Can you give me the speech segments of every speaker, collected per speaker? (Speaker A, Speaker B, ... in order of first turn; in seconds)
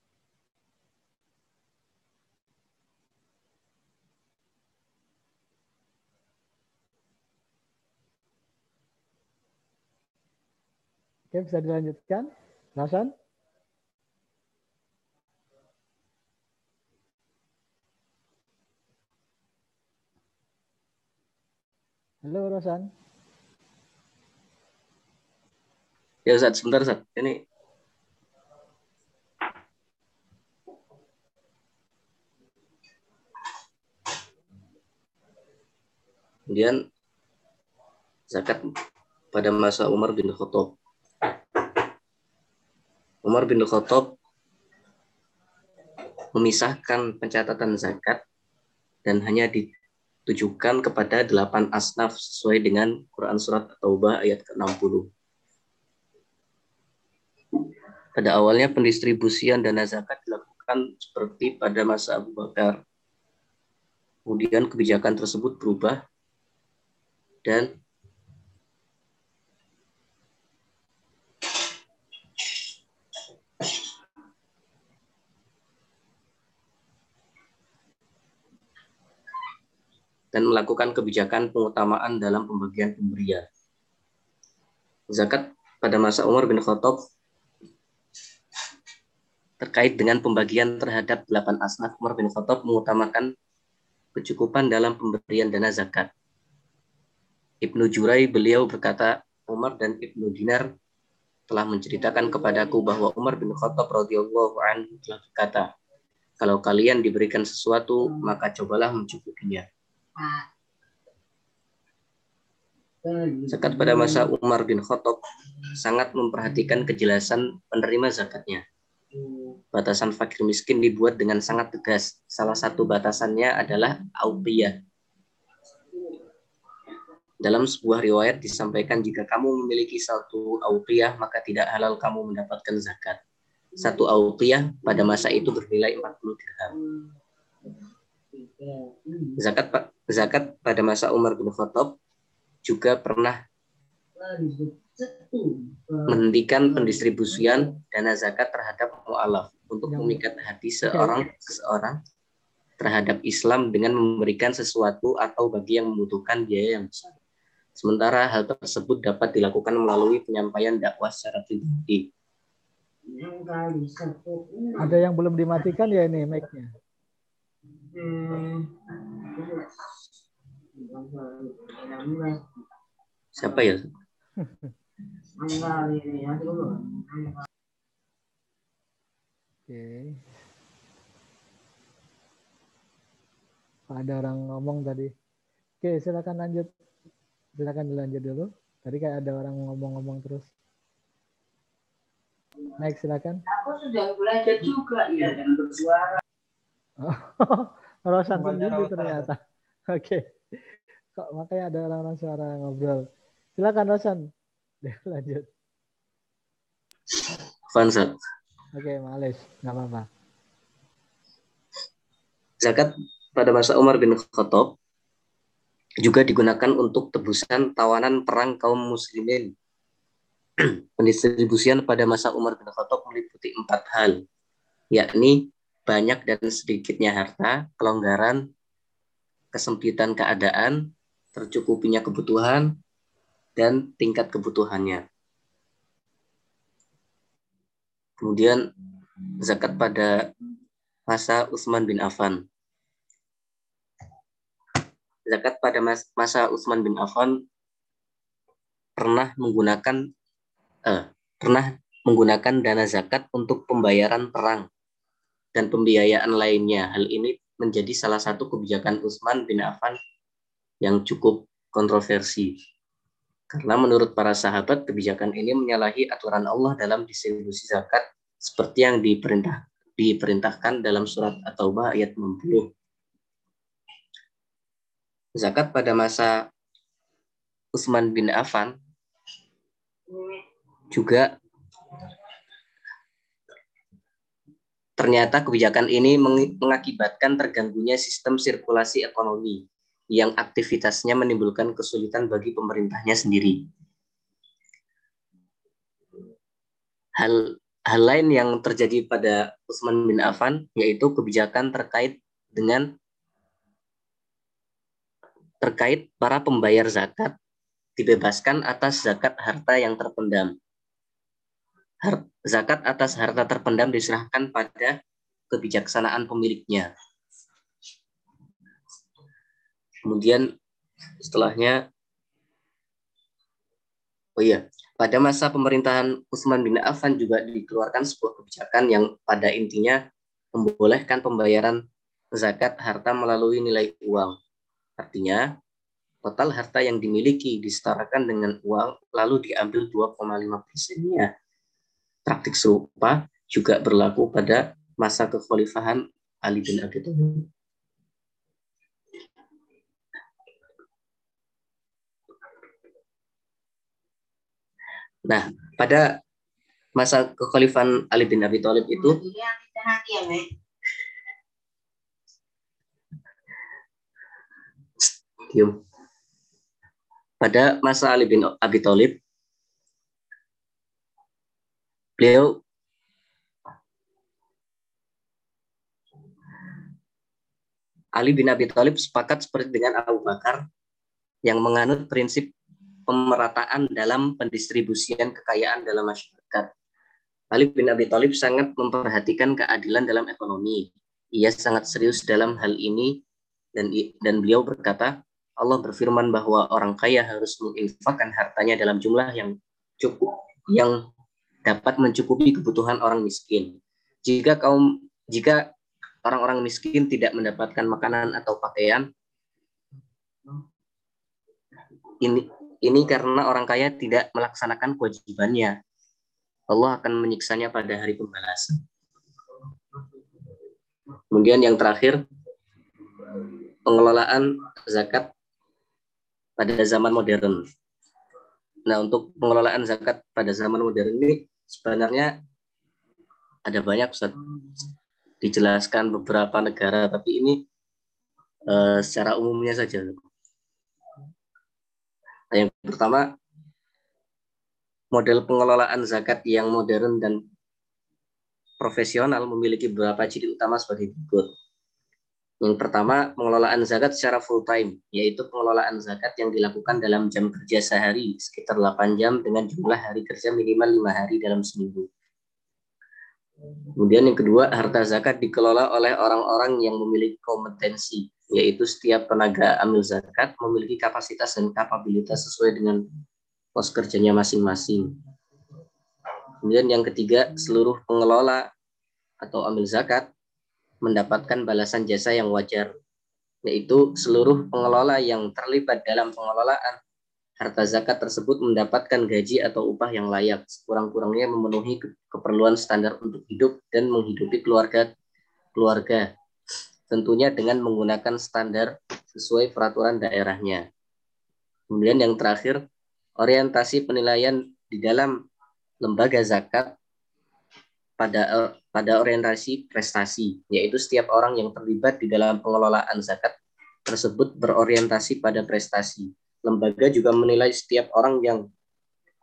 Speaker A: 11.3-13.1, 22.2-22.9, 149.9-150.2, 150.9-151.2, 164.8-166.7, 174.4-174.7, 179.7-180.2, 183.9-185.1, 185.8-186.7, 187.6-190.5, 192.8-193.4, 197.0-200.6, 201.2-203.0, 203.6-204.2, 204.8-205.5, 208.7-210.1
Speaker B: 26.3-27.4, 36.5-36.8, 38.3-38.6, 39.3-40.8, 43.2-44.2, 46.4-48.2, 49.0-49.7, 50.3-55.1, 58.2-62.8, 64.3-66.0, 67.5-67.8, 80.3-83.5, 85.1-87.0, 89.6-93.3, 94.2-96.1, 97.6-100.7, 101.5-105.7, 106.4-109.7, 113.5-115.2, 115.8-118.6, 119.7-124.8, 127.4-133.2, 133.8-136.7, 139.4-142.0, 142.7-143.4, 146.1-152.0, 152.8-157.1, 157.8-162.1, 173.4-173.8, 207.7-208.2, 212.6-214.8, 216.0-219.5, 220.6-224.2, 224.9-228.4, 229.5-232.8, 233.6-235.0, 238.2-238.7, 239.4-240.3, 241.1-242.4, 245.3-247.4, 249.0-250.0, 250.9-254.7, 255.6-260.0, 260.8-262.5, 263.5-272.7, 275.4-276.5, 277.8-278.8, 280.9-281.3, 285.0-293.7, 297.2-302.9, 305.6-307.4, 308.0-310.6, 312.0-315.0, 315.5-316.9, 320.1-320.5, 321.2-321.8, 324.4-330.0, 330.5-331.8, 332.4-334.4, 335.0-335.5, 336.2-341.3, 342.3-347.5, 355.3-356.1, 356.9-359.2, 365.5-365.8, 367.4-369.2, 372.2-372.6, 378.2-380.6, 381.4-382.5, 383.1-386.7, 387.5-393.2, 393.8-400.9, 401.6-405.7, 406.2-409.1, 412.2-415.8, 416.7-418.8, 421.3-422.2, 423.9-425.3, 426.6-427.6, 428.9-432.3, 433.7-434.4, 435.4-437.7, 438.7-440.2, 442.5-443.4, 445.1-447.4, 448.8-451.5, 452.6-462.1, 464.0-473.1, 473.8-475.1, 476.6-478.7, 479.4-480.3, 481.0-482.9, 483.6-487.0, 487.6-495.1, 495.8-496.3, 497.1-500.9, 501.9-502.8, 503.4-505.3, 506.0-506.9, 508.2-513.5, 514.1-518.7
Speaker C: 110.2-110.5, 113.0-114.3, 119.1-119.6, 136.7-137.1, 137.6-139.4, 144.2-147.7, 163.1-164.9, 167.8-169.7, 170.8-172.4, 175.4-177.4, 193.5-196.2, 359.0-360.5